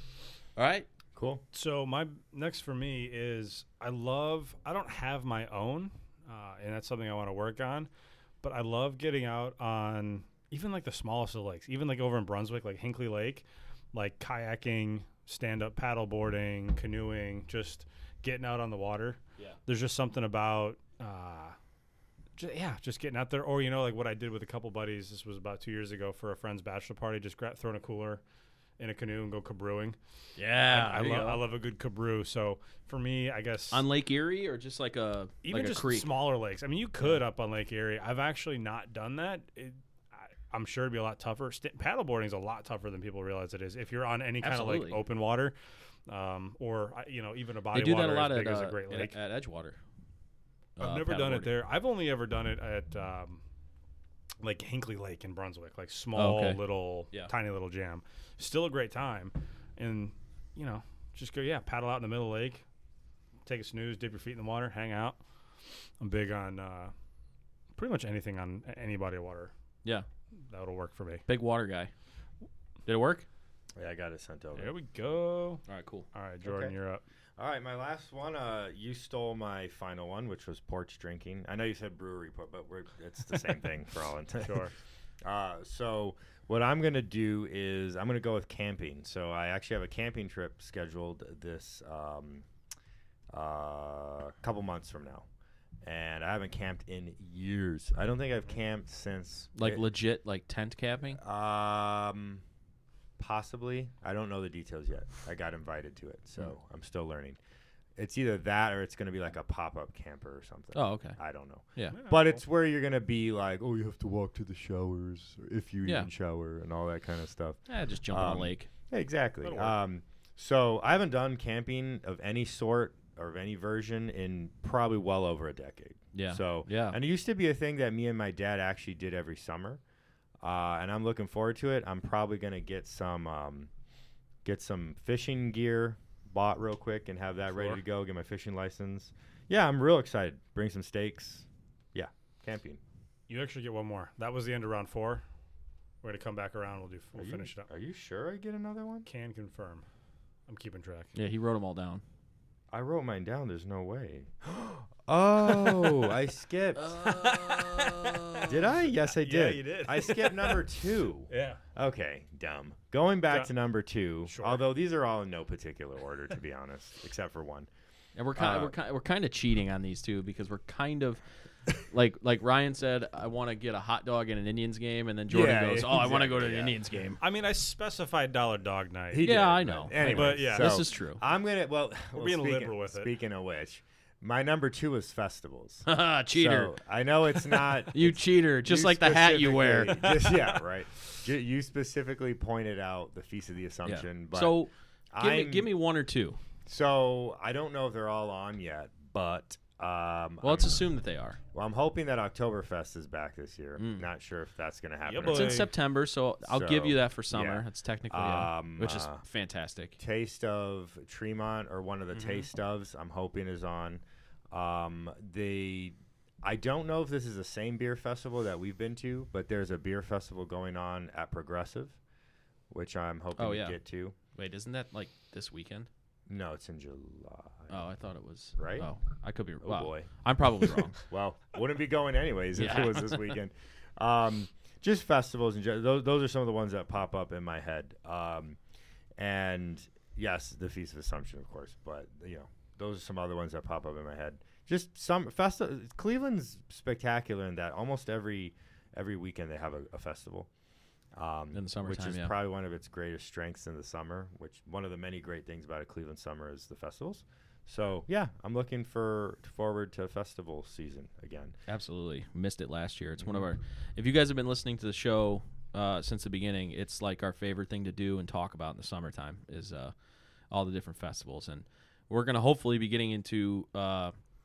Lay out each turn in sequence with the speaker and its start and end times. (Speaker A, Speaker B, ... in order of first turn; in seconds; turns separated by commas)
Speaker A: 0.6-0.9, Speaker B: 1.1-1.4, Speaker C: 1.5-7.9, Speaker C: 8.4-21.6, Speaker C: 22.4-28.2, Speaker C: 28.8-30.0, Speaker A: 30.4-31.4, Speaker C: 30.7-33.8, Speaker A: 33.7-36.1, Speaker C: 35.4-45.5, Speaker A: 44.4-45.0, Speaker C: 46.1-49.1, Speaker A: 47.7-49.8, Speaker A: 50.8-51.5, Speaker C: 50.8-53.4, Speaker C: 54.4-62.6, Speaker A: 56.1-56.6, Speaker C: 63.5-65.2, Speaker C: 66.0-66.9, Speaker C: 67.8-69.5, Speaker C: 70.4-71.2, Speaker A: 71.3-71.9, Speaker A: 72.8-73.2, Speaker B: 73.8-74.7, Speaker C: 74.5-77.0, Speaker A: 75.7-76.1, Speaker B: 76.4-76.7, Speaker B: 77.4-84.7, Speaker C: 84.4-84.7, Speaker B: 85.2-92.5, Speaker B: 93.3-95.2, Speaker B: 95.8-99.8, Speaker A: 99.5-101.2, Speaker B: 101.1-102.4, Speaker B: 103.2-107.4, Speaker B: 108.0-129.8, Speaker A: 110.7-111.2, Speaker C: 111.9-112.4, Speaker A: 117.7-118.7, Speaker C: 119.4-119.8, Speaker A: 126.1-127.0, Speaker B: 130.4-133.7, Speaker B: 134.4-142.8, Speaker C: 137.5-137.8, Speaker C: 143.3-145.2, Speaker C: 146.0-147.7, Speaker B: 147.1-149.1, Speaker C: 149.1-149.8, Speaker C: 150.5-151.1, Speaker A: 151.1-152.0, Speaker B: 152.7-156.9, Speaker A: 156.8-158.6, Speaker C: 156.9-158.5, Speaker B: 158.5-167.7, Speaker C: 159.0-160.6, Speaker C: 161.3-161.6, Speaker C: 164.2-164.6, Speaker A: 168.2-171.2, Speaker B: 168.4-168.7, Speaker A: 171.7-177.2, Speaker B: 175.3-176.8, Speaker C: 177.2-179.3, Speaker B: 179.1-194.6, Speaker A: 179.2-181.2, Speaker C: 180.0-180.7, Speaker C: 182.1-183.1, Speaker A: 185.8-186.7, Speaker A: 187.3-190.3, Speaker A: 193.8-196.4, Speaker B: 195.1-195.7, Speaker B: 196.7-200.8, Speaker A: 200.4-201.4, Speaker B: 201.5-205.7, Speaker A: 203.8-204.1, Speaker C: 205.0-205.7, Speaker A: 205.2-209.9, Speaker B: 206.4-209.2, Speaker B: 210.0-222.0, Speaker C: 212.1-212.4, Speaker B: 222.7-224.1, Speaker A: 223.4-223.8, Speaker A: 224.3-225.9, Speaker B: 226.3-227.8, Speaker A: 227.7-231.0, Speaker B: 228.6-228.9, Speaker B: 229.6-230.1, Speaker B: 230.6-238.6, Speaker A: 232.6-233.3, Speaker B: 239.2-250.5, Speaker B: 251.1-261.5, Speaker A: 251.5-252.3, Speaker A: 261.7-269.9, Speaker B: 263.2-263.5, Speaker A: 270.5-274.1